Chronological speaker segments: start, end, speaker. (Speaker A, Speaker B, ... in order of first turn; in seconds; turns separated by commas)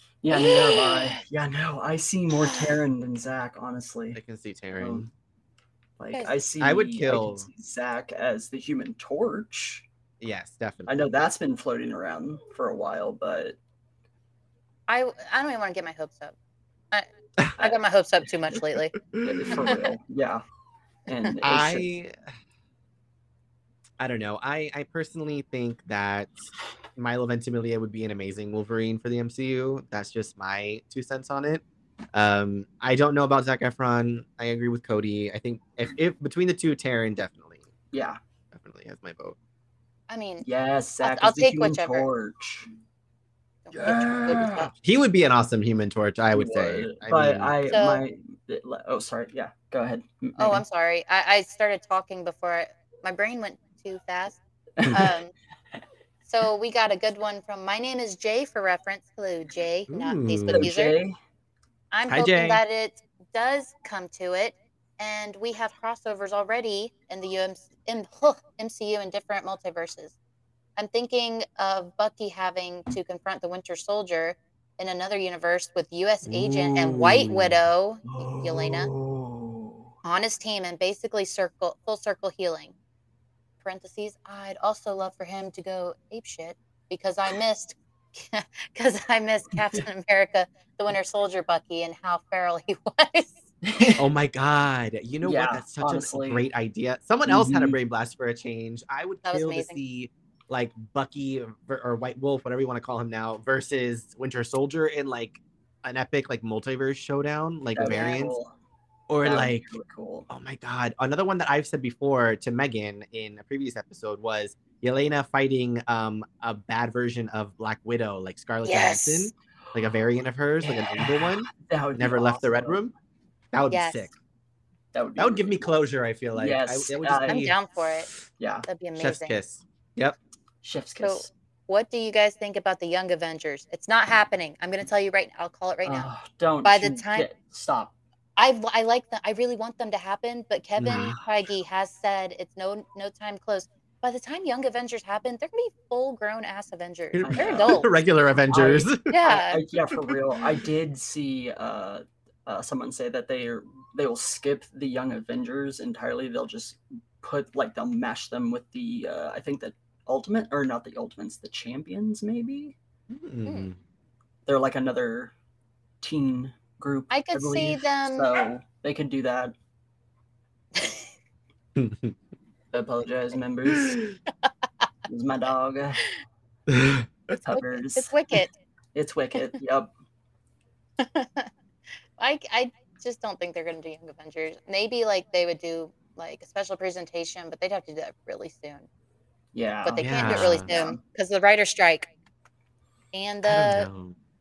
Speaker A: 0.2-4.2, Speaker B: 0.3-1.2, Speaker B: 2.3-2.8, Speaker C: 4.1-5.1, Speaker A: 4.8-5.1, Speaker A: 6.0-9.8, Speaker C: 6.6-7.5, Speaker C: 10.2-11.0, Speaker A: 10.9-13.6, Speaker B: 14.9-16.3, Speaker B: 16.9-18.9, Speaker C: 19.1-19.8, Speaker A: 19.2-20.4, Speaker A: 21.1-21.9, Speaker C: 21.4-22.1, Speaker C: 24.0-31.6, Speaker C: 32.1-37.7, Speaker A: 37.9-38.2, Speaker C: 38.5-39.4, Speaker B: 40.1-40.5, Speaker A: 40.4-42.7, Speaker B: 41.0-42.1, Speaker B: 43.6-44.7, Speaker A: 43.7-44.7, Speaker C: 44.7-47.5, Speaker A: 46.3-50.6, Speaker B: 47.7-48.0, Speaker B: 50.4-55.3, Speaker A: 54.8-55.1, Speaker B: 56.2-60.9, Speaker C: 59.9-60.7, Speaker A: 60.5-61.1, Speaker B: 61.9-70.1, Speaker C: 62.1-62.6, Speaker B: 70.8-78.9, Speaker C: 76.2-77.6, Speaker A: 78.0-79.9, Speaker B: 80.0-82.7, Speaker B: 83.6-94.0, Speaker A: 89.5-89.8, Speaker A: 93.6-94.0, Speaker C: 94.0-108.4, Speaker A: 95.2-96.5, Speaker A: 97.2-97.8, Speaker B: 99.2-99.8, Speaker A: 107.7-108.5, Speaker C: 109.1-109.7, Speaker A: 109.2-110.3, Speaker C: 110.3-122.9, Speaker B: 118.6-119.3, Speaker A: 120.6-122.8, Speaker C: 123.5-124.1, Speaker B: 123.7-124.1, Speaker A: 124.9-125.7, Speaker C: 125.2-127.5, Speaker A: 126.3-127.4, Speaker B: 127.3-128.1, Speaker A: 128.4-128.7, Speaker B: 128.7-129.4, Speaker C: 128.9-130.2, Speaker A: 130.6-131.3, Speaker B: 131.0-136.1, Speaker A: 135.8-137.9, Speaker B: 136.6-137.3, Speaker B: 138.4-147.9, Speaker C: 140.8-141.2, Speaker C: 147.1-149.1, Speaker A: 147.2-147.9, Speaker A: 148.5-162.7, Speaker B: 149.1-149.6, Speaker C: 149.9-150.2, Speaker C: 163.1-163.8, Speaker A: 164.4-165.3, Speaker A: 166.0-169.5, Speaker B: 167.1-168.4, Speaker B: 170.8-171.0, Speaker C: 171.8-172.1, Speaker A: 172.7-174.0, Speaker A: 175.1-176.1, Speaker C: 176.7-177.4, Speaker A: 177.4-178.1, Speaker B: 177.4-178.5, Speaker A: 178.9-179.9, Speaker B: 181.0-181.5, Speaker B: 182.2-188.9, Speaker A: 189.5-191.0, Speaker B: 189.8-192.1, Speaker C: 190.0-190.7, Speaker B: 193.1-193.9, Speaker C: 193.4-194.2